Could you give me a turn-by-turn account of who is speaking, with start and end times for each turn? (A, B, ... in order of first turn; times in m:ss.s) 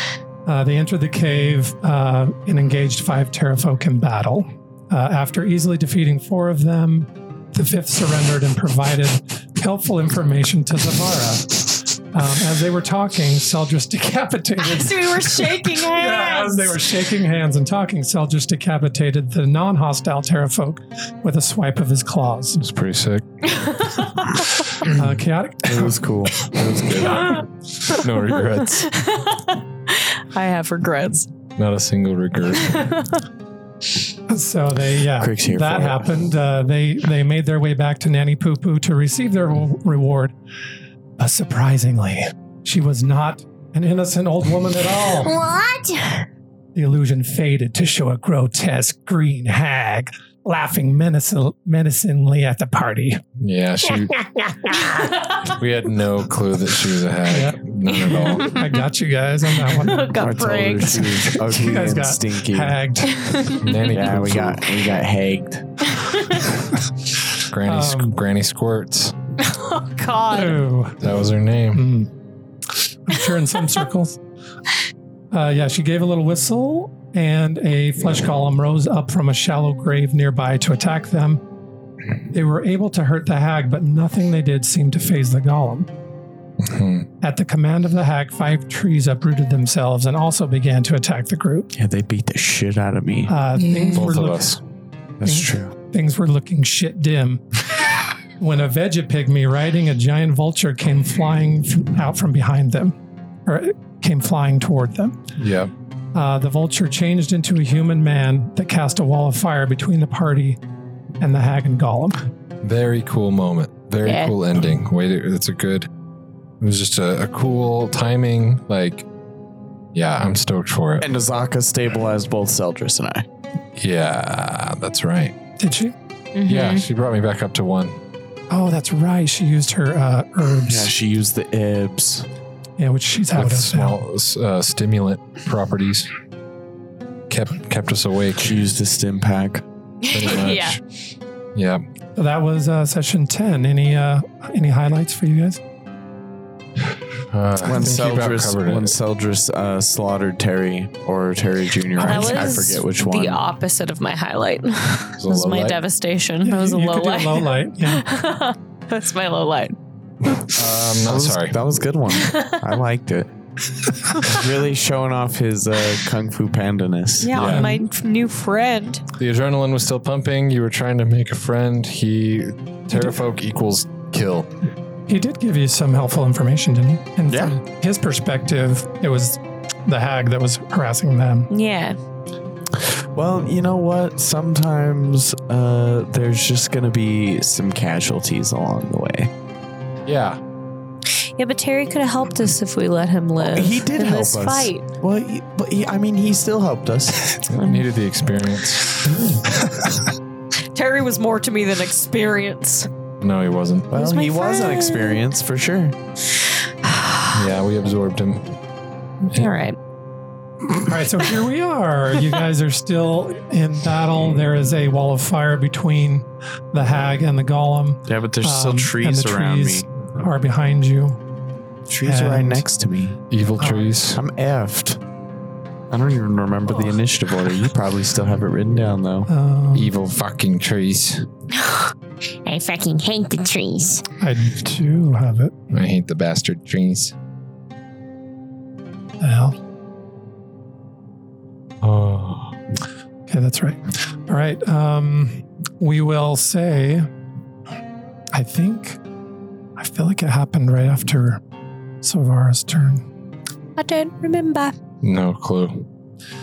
0:00.5-0:22.6 A
0:14.6-0:16.9 B
0:22.6-0:23.3 C
0:23.5-0:24.4 B
0:24.8-0:26.1 A
0:25.6-0:27.4 D
0:27.8-0:28.9 C
0:28.8-0:31.3 B
0:31.6-0:32.8 C
0:32.6-0:33.2 B
0:34.3-0:40.3 A
0:35.2-0:36.3 D
0:41.2-0:45.4 A
0:45.2-0:46.2 E
0:46.8-0:53.2 A
0:53.4-0:54.2 C
0:55.0-0:55.4 B
0:55.4-0:58.5 C
0:57.3-1:00.1 A
0:58.2-0:58.8 B
0:59.7-1:01.3 B
1:00.1-1:02.8 D
1:01.3-1:03.5 A
1:03.2-1:04.1 B
1:03.6-1:04.7 C
1:03.9-1:05.9 D
1:05.9-1:06.5 B
1:07.5-1:09.2 C
1:07.6-1:08.2 A
1:09.4-1:10.6 B
1:10.3-1:11.0 A
1:11.0-1:11.8 C
1:11.7-1:12.1 A
1:13.1-1:14.2 A
1:15.3-1:21.4 A
1:22.3-1:25.9 A
1:26.6-1:27.1 C
1:27.2-1:31.7 A
1:31.7-1:33.4 D
1:33.3-1:34.6 A
1:33.6-1:34.0 B
1:33.9-1:34.6 C
1:35.2-1:35.7 D
1:35.2-1:37.4 A
1:38.4-1:45.2 A
1:45.4-1:45.7 C
1:46.1-1:50.6 A
1:51.2-1:52.2 A
1:52.6-1:55.9 C
1:56.6-1:59.0 C
1:59.9-2:01.1 C
2:01.0-2:03.2 D
2:03.8-2:05.4 C
2:05.6-2:05.9 A
2:06.4-2:06.8 B
2:06.5-2:08.0 C
2:08.5-2:10.9 A
2:10.6-2:12.3 D
2:12.8-2:14.0 A
2:13.3-2:16.1 C
2:17.3-2:18.5 C
2:18.4-2:19.6 D
2:20.0-2:20.8 B
2:20.1-2:20.8 C
2:21.6-2:21.8 C
2:22.2-2:25.6 A
2:27.3-2:29.0 C
2:27.6-2:33.4 D
2:32.0-2:39.8 B
2:35.2-2:35.8 C
2:36.4-2:38.0 A
2:40.5-2:41.6 C
2:41.0-2:43.3 D
2:42.1-2:42.6 B
2:44.2-2:47.6 D
2:47.2-2:49.0 B
2:47.3-2:47.7 C
2:47.5-2:47.8 A
2:49.2-2:54.5 C
2:55.1-3:01.5 A
2:57.3-2:57.6 D
3:01.5-3:02.0 B
3:02.8-3:09.3 D
3:10.1-3:10.4 C
3:11.4-3:14.8 B
3:13.4-3:17.3 D
3:17.4-3:17.9 B
3:17.5-3:19.0 C
3:20.7-3:22.9 B
3:23.2-3:23.9 C
3:23.9-3:26.0 D
3:24.0-3:25.2 B
3:26.9-3:27.3 B
3:27.3-3:28.6 C
3:29.2-3:29.8 B
3:30.8-3:41.2 A
3:38.1-3:39.8 D
3:41.9-3:43.2 D
3:42.0-3:42.7 A
3:43.3-3:44.2 C
3:43.6-3:43.9 A
3:44.2-3:45.0 D
3:45.9-3:49.3 D
3:49.3-3:49.9 A
3:49.7-3:51.3 C
3:52.5-3:54.0 E
3:54.2-3:55.5 A
3:55.7-3:57.2 C
3:59.2-3:59.6 A
4:01.8-4:02.6 C
4:03.3-4:07.1 A
4:08.3-4:09.0 A
4:09.8-4:11.4 A
4:12.0-4:13.1 A
4:13.8-4:14.8 B
4:15.0-4:15.9 C